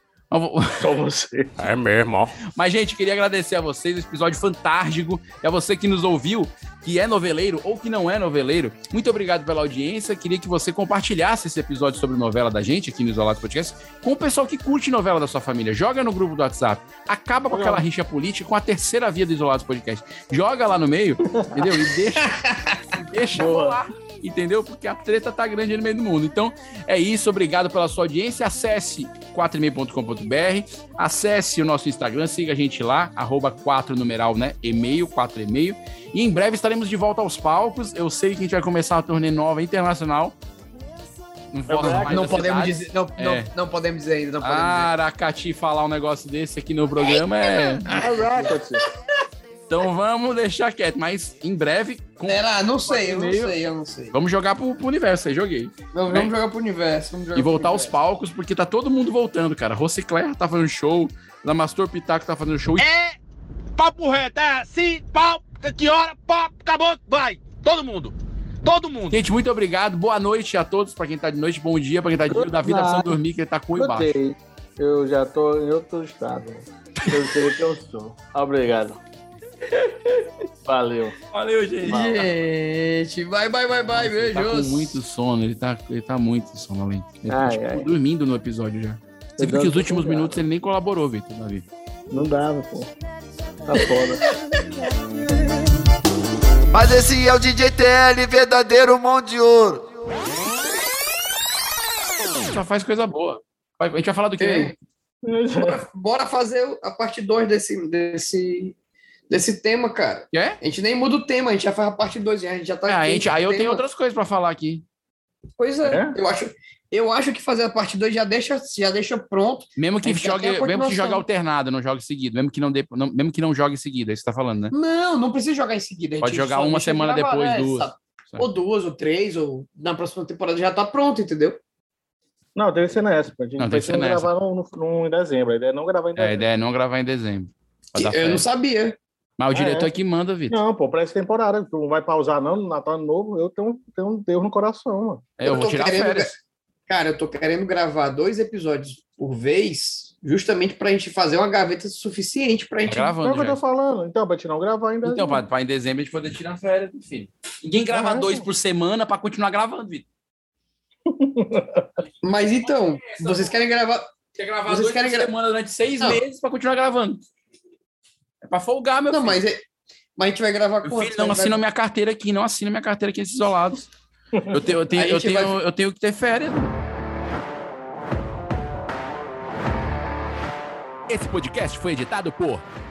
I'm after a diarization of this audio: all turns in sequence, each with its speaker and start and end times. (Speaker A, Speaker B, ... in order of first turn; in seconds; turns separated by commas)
Speaker A: 0.3-0.9, Speaker B: 0.8-1.5, Speaker C: 1.6-2.2, Speaker A: 1.9-22.4, Speaker B: 17.5-17.8, Speaker B: 21.3-21.8, Speaker D: 22.2-22.8, Speaker A: 22.9-40.3, Speaker B: 23.3-23.8, Speaker A: 41.5-43.5, Speaker B: 41.7-42.3, Speaker D: 41.8-44.9, Speaker A: 44.4-47.9, Speaker D: 47.7-48.5, Speaker B: 47.9-48.8, Speaker A: 49.7-53.6, Speaker D: 52.2-54.1, Speaker A: 54.1-56.3, Speaker D: 55.9-57.9, Speaker A: 57.3-62.8, Speaker C: 62.8-63.1, Speaker C: 63.8-69.2, Speaker A: 69.1-74.1, Speaker B: 72.3-73.2, Speaker B: 73.7-79.0, Speaker B: 80.6-81.2, Speaker A: 81.3-82.2, Speaker B: 81.8-82.3, Speaker D: 81.8-85.0, Speaker A: 83.9-91.6, Speaker B: 87.3-87.9, Speaker B: 89.4-90.4, Speaker B: 92.1-92.9, Speaker B: 93.7-94.2, Speaker E: 96.7-99.8, Speaker A: 102.4-104.8, Speaker D: 104.4-104.7, Speaker B: 105.2-105.8, Speaker D: 105.6-108.7, Speaker D: 109.3-113.8, Speaker A: 110.3-110.6, Speaker A: 112.9-114.8, Speaker D: 115.6-121.2, Speaker B: 115.8-116.2, Speaker A: 119.8-124.7, Speaker D: 124.7-131.6, Speaker A: 126.2-128.4, Speaker B: 132.6-136.5, Speaker A: 133.6-134.3, Speaker A: 136.2-138.4, Speaker D: 137.9-139.0, Speaker A: 139.4-140.6, Speaker B: 139.5-139.9, Speaker B: 140.5-145.2, Speaker A: 145.4-146.3, Speaker D: 145.4-146.3, Speaker D: 146.9-153.1, Speaker A: 152.8-153.6, Speaker B: 153.2-155.4, Speaker A: 155.0-160.0, Speaker B: 157.9-158.5, Speaker B: 161.1-161.9, Speaker D: 162.2-164.1, Speaker A: 162.7-163.5, Speaker A: 164.3-167.2, Speaker D: 164.7-165.3, Speaker A: 168.4-169.4, Speaker D: 169.1-169.6, Speaker D: 170.2-171.6, Speaker A: 170.8-173.9, Speaker A: 174.5-176.7, Speaker D: 174.9-175.6, Speaker A: 181.1-182.6